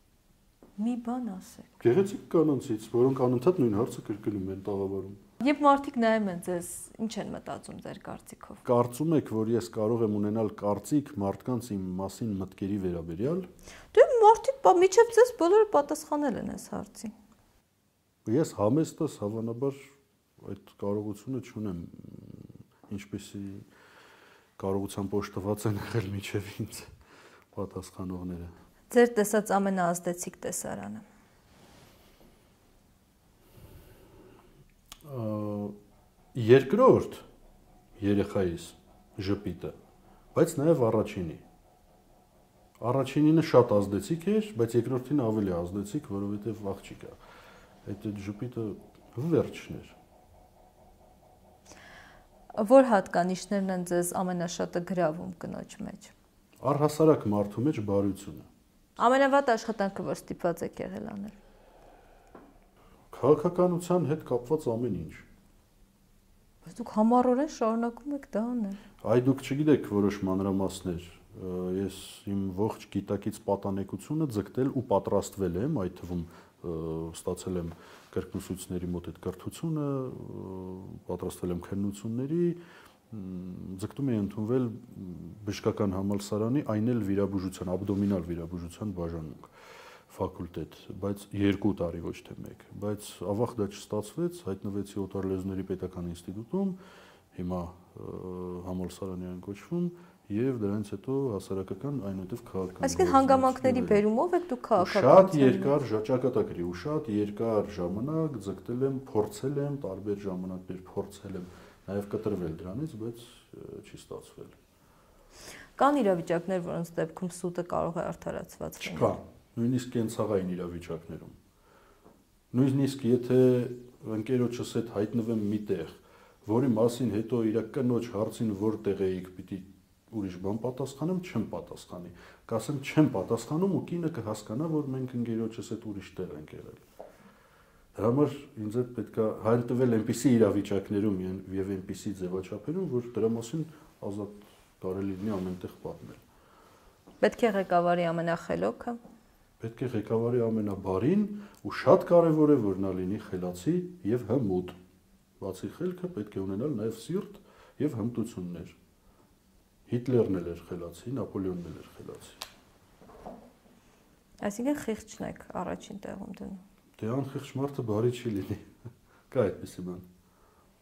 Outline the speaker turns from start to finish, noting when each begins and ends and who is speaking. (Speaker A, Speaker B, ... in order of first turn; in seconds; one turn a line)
Speaker A: 0.8-1.7
Speaker B: 1.8-5.2
Speaker A: 5.4-8.6
Speaker B: 8.6-13.5
Speaker A: 13.9-17.1
Speaker B: 18.2-19.8
Speaker B: 20.4-23.7
Speaker B: 24.6-26.9
Speaker B: 27.5-28.5
Speaker A: 28.9-31.1
Speaker B: 35.0-35.8
Speaker B: 36.3-37.2
Speaker B: 38.0-39.8
Speaker B: 40.3-41.4
Speaker B: 42.8-47.2
Speaker B: 47.9-50.0
Speaker A: 52.5-56.1
Speaker B: 56.6-58.5
Speaker A: 59.0-61.3
Speaker B: 63.1-65.2
Speaker A: 66.7-68.8
Speaker B: 69.0-89.5
Speaker B: 90.1-96.8
Speaker B: 97.3-104.0
Speaker A: 102.8-105.7
Speaker B: 104.8-114.6
Speaker A: 115.8-119.2
Speaker B: 118.8-121.3
Speaker B: 122.5-136.8
Speaker B: 138.0-146.2
Speaker A: 147.2-149.0
Speaker B: 149.6-154.8
Speaker B: 155.4-158.8
Speaker B: 159.9-162.4
Speaker A: 164.4-166.6
Speaker B: 167.0-168.7
Speaker B: 169.3-170.1